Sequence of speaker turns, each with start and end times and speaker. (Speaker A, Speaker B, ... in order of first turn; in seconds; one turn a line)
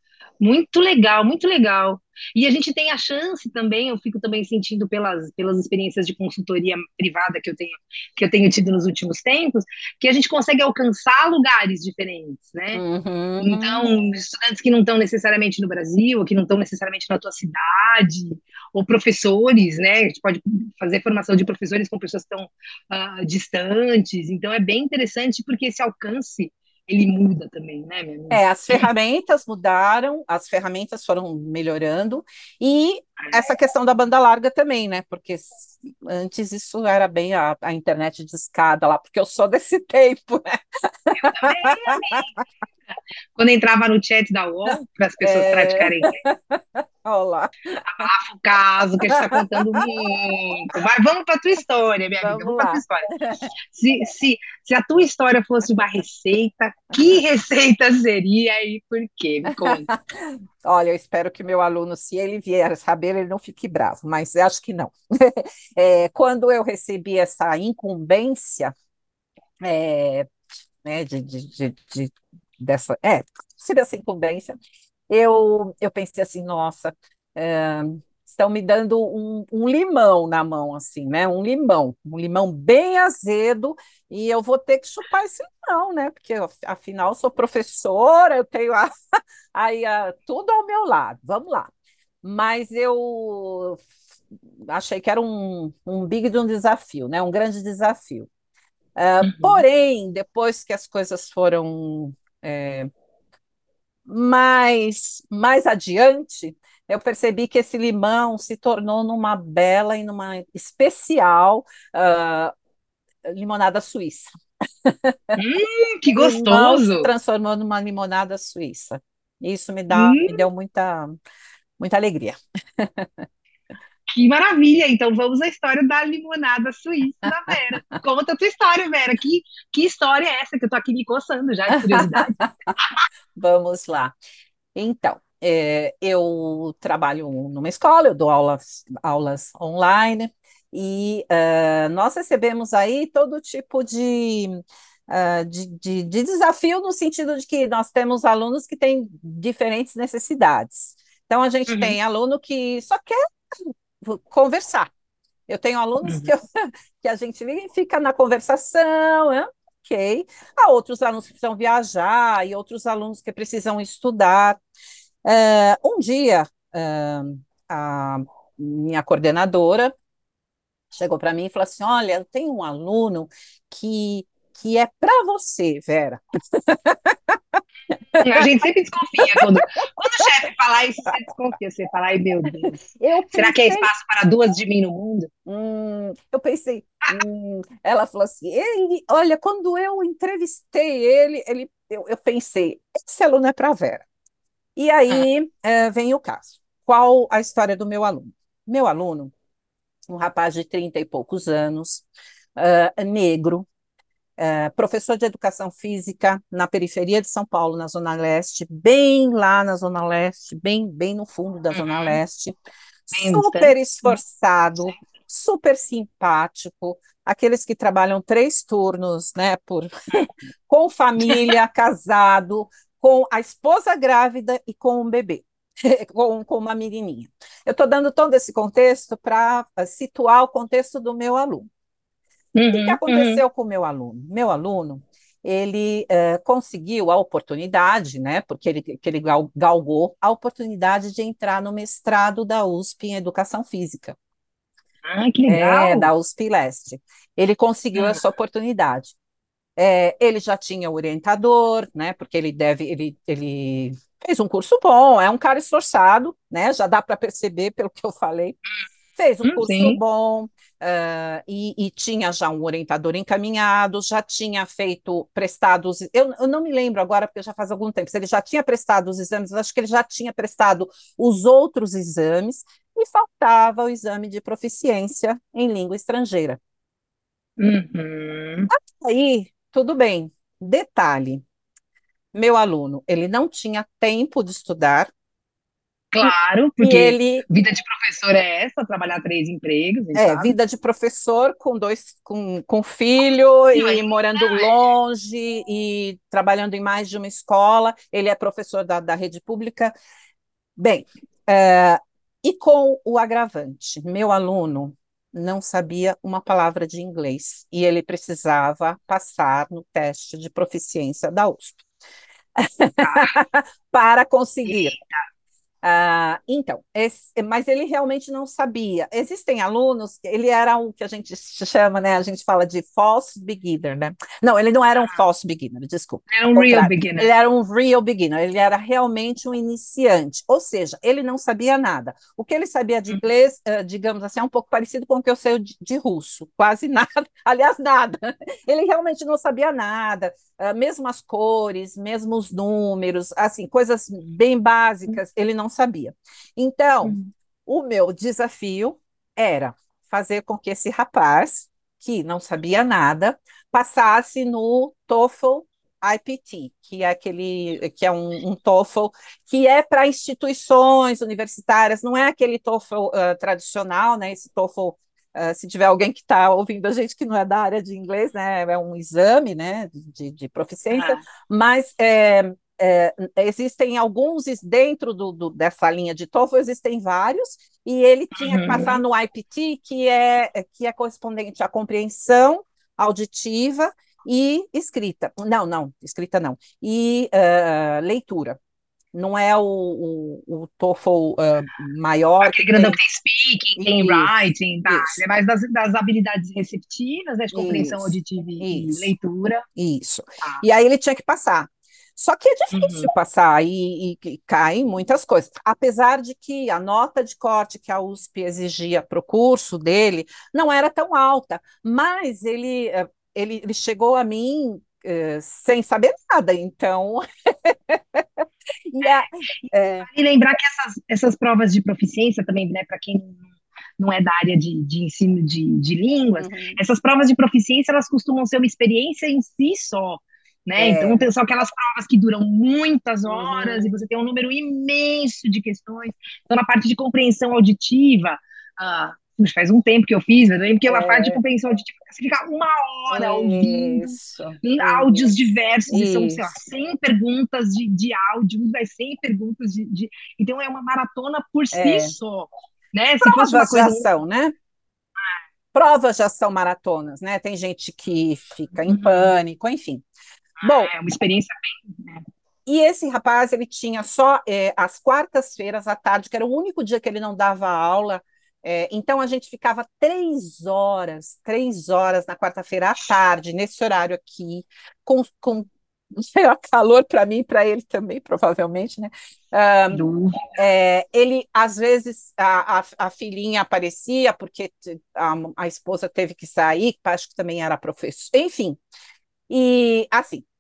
Speaker A: 0.4-12.8
Speaker B: 12.7-13.9
Speaker A: 13.4-28.9
Speaker B: 28.3-42.3
Speaker A: 41.2-42.3
Speaker A: 42.9-46.2
Speaker B: 45.2-48.1
Speaker A: 47.9-53.1
Speaker B: 49.1-50.1
Speaker B: 52.2-53.5
Speaker A: 53.6-59.9
Speaker B: 59.5-68.7
Speaker B: 69.6-70.3
Speaker B: 70.8-74.6
Speaker B: 75.1-88.9
Speaker B: 89.5-91.7
Speaker B: 92.2-93.8
Speaker B: 94.7-98.3
Speaker B: 99.0-102.9
Speaker A: 99.2-99.6
Speaker B: 104.1-112.5
Speaker B: 113.3-114.3
Speaker B: 114.9-115.4
Speaker A: 115.4-117.1
Speaker B: 116.2-121.2
Speaker A: 119.9-120.5
Speaker B: 121.8-123.3
Speaker A: 124.1-133.0
Speaker B: 131.7-132.8
Speaker B: 133.3-134.2
Speaker B: 134.8-153.2
Speaker A: 151.7-152.0
Speaker B: 154.0-154.9
Speaker B: 155.5-156.4
Speaker A: 156.0-156.3
Speaker B: 157.0-164.6
Speaker B: 165.2-169.9
Speaker B: 170.9-177.4
Speaker B: 178.2-178.5
Speaker A: 178.2-182.8
Speaker B: 182.6-183.9
Speaker A: 183.3-185.3
Speaker B: 185.5-194.1
Speaker B: 194.8-199.3
Speaker B: 200.1-203.7
Speaker B: 204.4-212.6
Speaker A: 211.7-212.2
Speaker B: 213.1-231.7
Speaker A: 213.1-214.2
Speaker A: 232.6-233.4
Speaker B: 232.7-244.2
Speaker A: 245.0-246.1
Speaker B: 245.5-249.2
Speaker A: 247.9-248.2
Speaker B: 249.8-258.6
Speaker B: 259.1-276.6
Speaker A: 259.4-260.0
Speaker A: 277.6-278.7
Speaker B: 278.7-281.4
Speaker B: 282.3-285.1
Speaker A: 286.1-290.5
Speaker B: 286.2-287.4
Speaker B: 290.1-299.9
Speaker A: 293.7-294.7
Speaker B: 300.8-311.8
Speaker B: 312.6-314.9
Speaker A: 313.0-313.4
Speaker A: 314.7-315.2
Speaker B: 315.8-388.6
Speaker A: 326.3-327.3
Speaker A: 347.0-347.3
Speaker A: 370.9-371.2
Speaker A: 378.3-379.0
Speaker B: 389.1-393.0
Speaker A: 392.4-399.6
Speaker B: 393.8-394.3
Speaker B: 394.9-395.2
Speaker B: 397.5-399.1
Speaker B: 399.8-420.1
Speaker A: 402.7-403.1
Speaker A: 420.0-423.4
Speaker A: 424.0-454.1
Speaker B: 426.4-426.8
Speaker B: 430.8-431.3
Speaker B: 433.3-433.9
Speaker B: 440.9-441.4
Speaker B: 443.1-445.3
Speaker B: 445.9-446.5
Speaker B: 451.7-452.1
Speaker B: 453.2-454.6
Speaker B: 455.7-460.0
Speaker A: 458.9-459.3
Speaker A: 460.6-462.2
Speaker B: 460.6-460.9
Speaker B: 462.7-488.8
Speaker A: 479.9-480.4
Speaker B: 489.5-490.4